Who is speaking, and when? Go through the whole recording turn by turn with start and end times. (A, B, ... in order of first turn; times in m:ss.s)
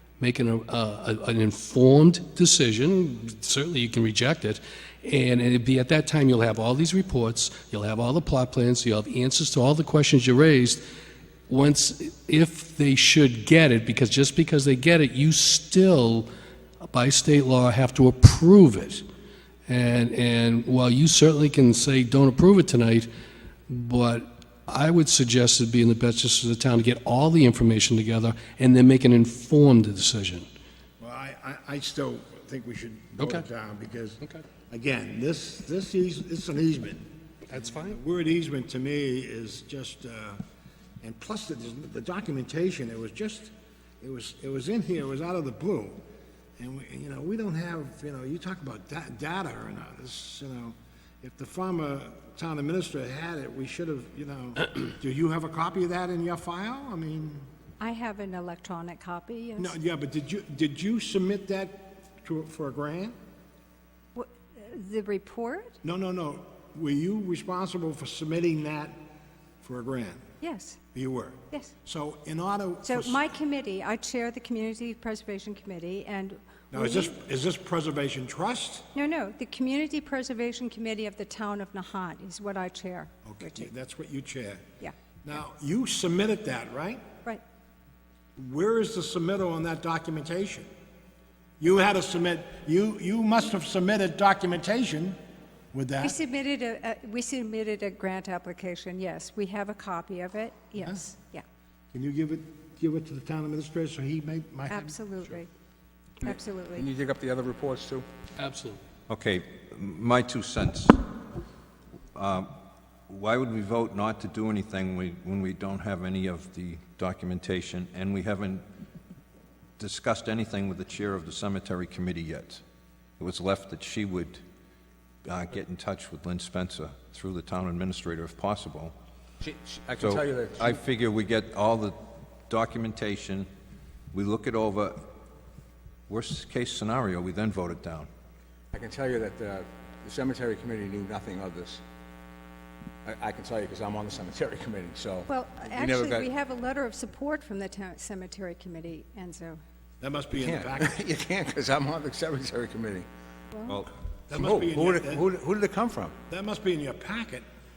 0:00.2-0:10.8 A
0:11.5-0:16.3 A
0:16.8-0:19.0 A
0:19.7-0:23.1 A
0:23.7-0:30.5 A
0:31.0-0:40.4 B
0:33.2-0:33.4 A
0:37.5-0:38.0 A
0:41.0-0:46.0 B
0:46.6-0:57.5 B
0:57.8-0:59.7 C
0:59.6-1:03.2 B
1:04.1-1:05.8 C
1:05.8-1:09.0 B
1:09.6-1:10.2 B
1:10.4-1:10.8 C
1:10.9-1:13.3 B
1:12.8-1:17.1 C
1:16.7-1:18.9 B
1:18.9-1:23.7 C
1:23.2-1:24.6 B
1:25.2-1:27.0 B
1:28.4-1:30.7 B
1:31.6-1:35.2 B
1:35.7-1:36.2 B
1:36.0-1:41.4 C
1:41.9-1:45.0 B
1:44.7-1:45.5 C
1:46.2-1:46.9 C
1:46.2-1:48.1 D
1:48.4-1:48.8 A
1:49.1-1:51.1 E
1:52.1-1:52.5 E
1:53.1-1:58.6 E
1:59.8-2:02.6 E
2:03.2-2:04.4 E
2:05.2-2:08.9 E
2:09.4-2:10.8 D
2:10.0-2:13.5 E
2:14.1-2:15.1 E
2:16.1-2:18.1 E
2:18.7-2:21.8 D
2:23.0-2:26.3 D
2:25.3-2:29.6 C
2:30.0-2:31.0 B
2:30.3-2:33.1 D
2:33.5-2:33.9 C
2:34.3-2:35.2 B
2:34.3-2:36.2 D
2:36.3-2:37.4 B